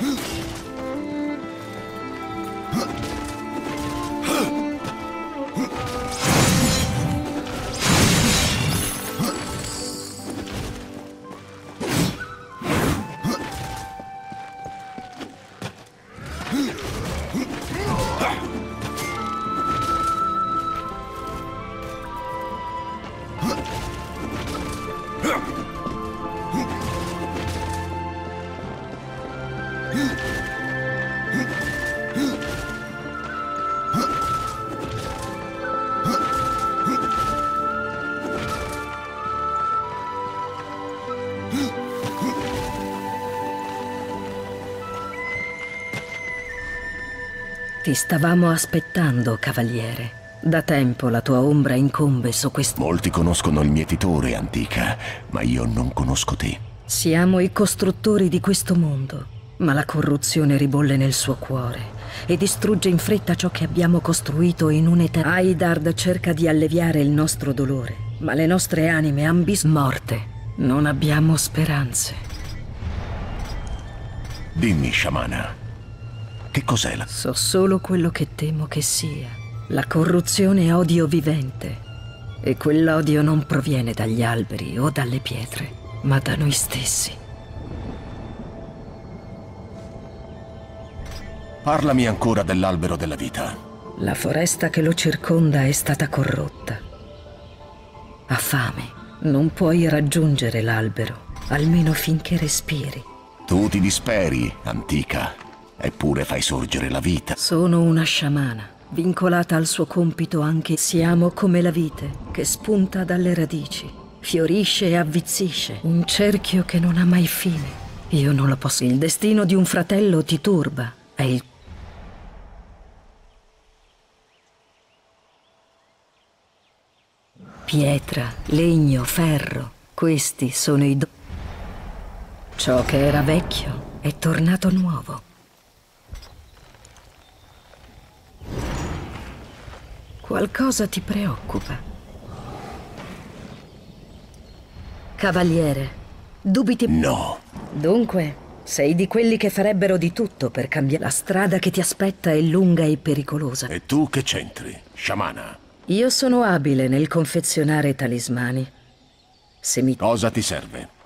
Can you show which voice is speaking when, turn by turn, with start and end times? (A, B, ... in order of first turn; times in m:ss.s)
0:47.8-0:52.8 A
0:52.8-0:56.6 B
0:56.9-1:12.2 A
1:14.5-1:15.5 B
1:16.5-1:17.1 B
1:17.1-1:21.8 A
1:22.4-1:27.2 A
1:31.6-1:33.6 B
1:34.0-1:36.8 A
1:38.3-1:43.0 A
1:43.5-1:47.4 B
1:47.4-2:01.4 A
2:07.7-2:11.1 A
2:12.6-2:15.2 A
2:20.2-2:21.8 A
2:25.2-2:26.9 A
2:26.9-2:27.4 B
2:27.7-2:33.7 A
2:33.7-2:35.6 B
2:35.9-2:38.7 A
2:39.6-2:40.0 A
2:40.0-2:40.9 B